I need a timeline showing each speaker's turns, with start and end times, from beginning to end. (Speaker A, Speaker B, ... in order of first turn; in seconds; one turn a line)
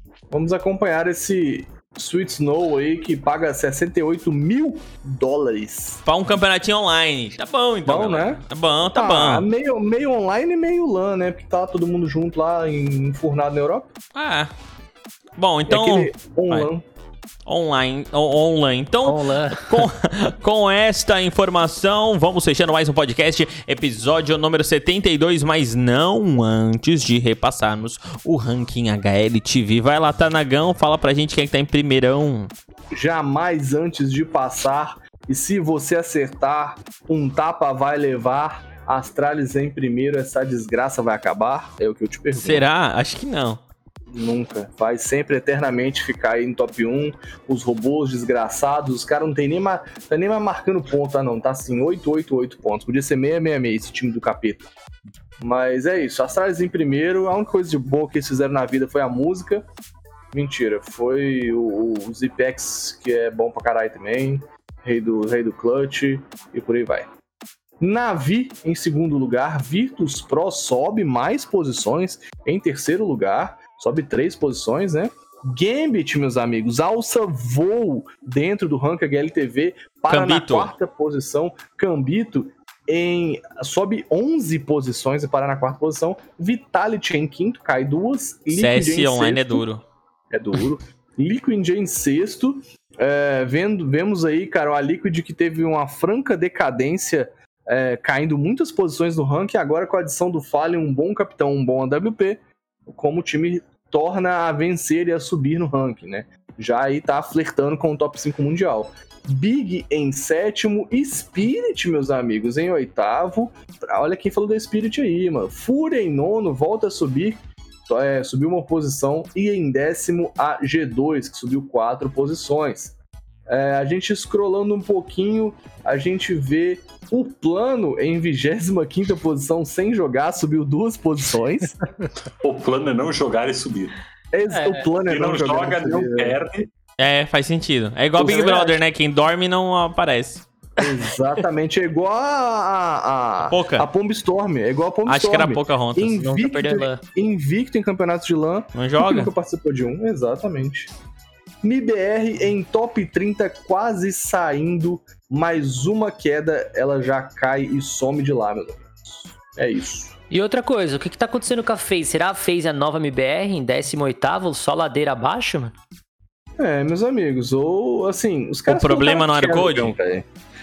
Speaker A: 0.3-6.0
Speaker B: 6.0-9.5
Speaker A: 7.8-13.9
Speaker B: 14.1-14.5
Speaker B: 15.4-16.7
Speaker A: 15.7-16.8
Speaker B: 17.4-32.5
Speaker C: 19.0-19.9
Speaker A: 32.9-42.6
Speaker B: 42.3-43.6
Speaker A: 44.1-54.7
Speaker A: 55.4-59.6
Speaker A: 60.3-67.1
Speaker A: 67.8-89.6
Speaker B: 80.1-80.7
Speaker B: 88.5-89.8
Speaker A: 90.3-123.0
Speaker A: 123.5-131.7
Speaker D: 132.4-134.0
Speaker A: 134.3-136.4
Speaker C: 134.5-134.9
Speaker D: 134.9-136.7
Speaker B: 137.0-140.4
Speaker A: 138.2-138.8
Speaker A: 140.8-150.9
Speaker B: 143.5-143.9
Speaker B: 145.1-146.2
Speaker C: 146.1-147.0
Speaker B: 148.7-149.3
Speaker A: 151.6-160.1
Speaker C: 160.3-165.7
Speaker A: 166.6-170.2
Speaker B: 168.7-169.9